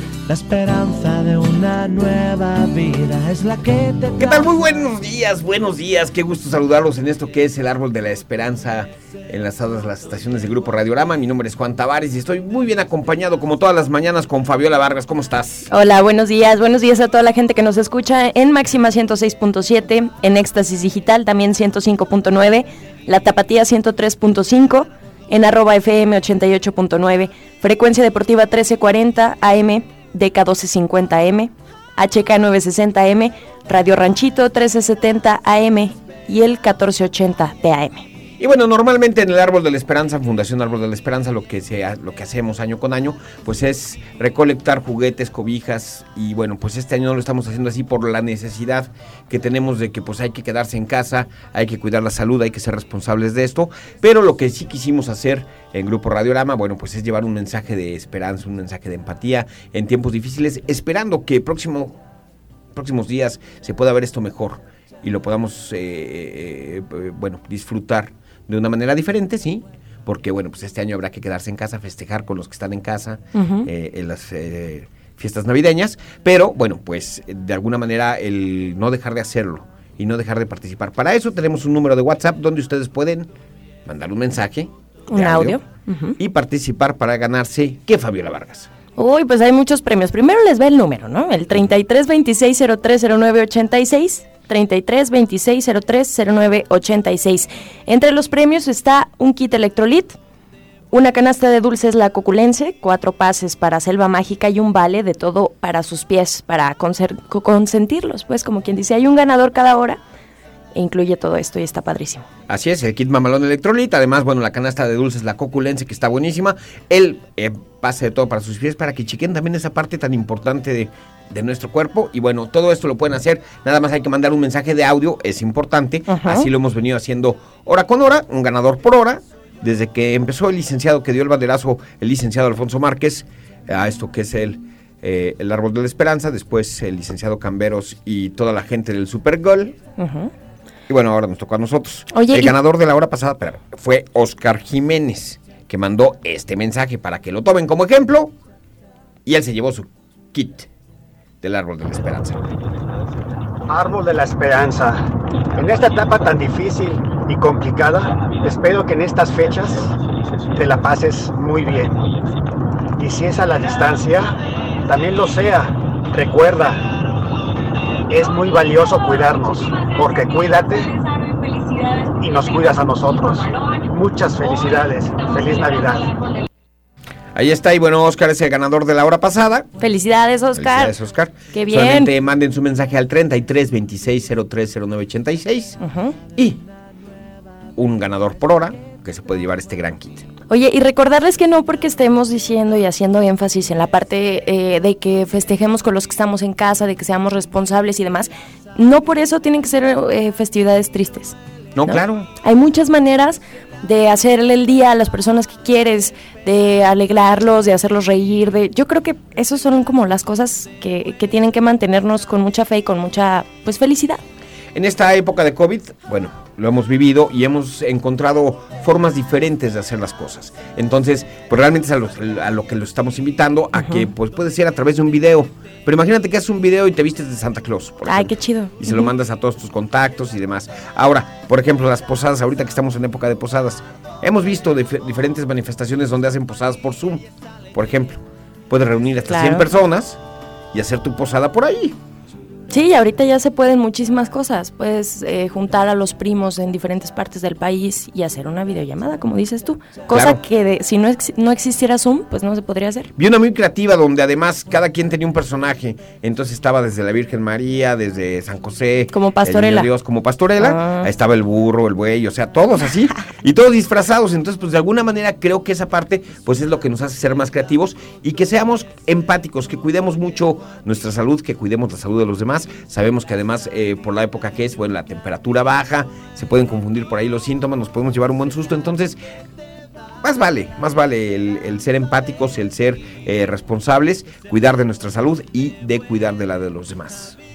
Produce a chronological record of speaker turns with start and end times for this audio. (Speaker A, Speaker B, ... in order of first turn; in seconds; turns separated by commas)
Speaker A: 0.3-4.5, Speaker B: 4.2-15.7, Speaker C: 15.7-38.1, Speaker B: 38.4-62.0, Speaker B: 62.7-83.3, Speaker C: 73.3-73.7, Speaker B: 83.8-85.6, Speaker C: 85.1-86.1, Speaker B: 86.2-88.7, Speaker C: 89.0-100.2, Speaker C: 100.9-110.0, Speaker C: 110.7-112.2, Speaker B: 112.5-139.8, Speaker C: 126.1-126.5, Speaker C: 140.0-140.3, Speaker B: 140.9-148.3, Speaker C: 142.1-142.6, Speaker B: 149.2-150.7, Speaker B: 151.4-152.4, Speaker D: 153.7-154.9, Speaker D: 155.6-159.7, Speaker D: 160.6-161.9, Speaker D: 163.0-164.3, Speaker D: 164.9-165.6, Speaker D: 166.2-166.7, Speaker D: 168.1-170.9, Speaker D: 172.2-176.1, Speaker B: 177.3-179.7, Speaker C: 179.8-181.0, Speaker B: 180.5-185.8, Speaker C: 181.5-182.1, Speaker C: 185.8-186.1, Speaker B: 186.3-186.6, Speaker B: 187.8-190.3, Speaker C: 190.4-201.3, Speaker B: 201.8-202.3, Speaker C: 201.8-214.2, Speaker B: 214.7-240.2, Speaker C: 223.7-224.1, Speaker C: 228.1-229.1, Speaker C: 239.3-239.7, Speaker B: 240.7-241.9, Speaker C: 242.7-253.1, Speaker B: 250.1-250.4, Speaker B: 253.2-279.2, Speaker C: 259.1-259.9, Speaker C: 260.6-261.1, Speaker B: 280.2-287.4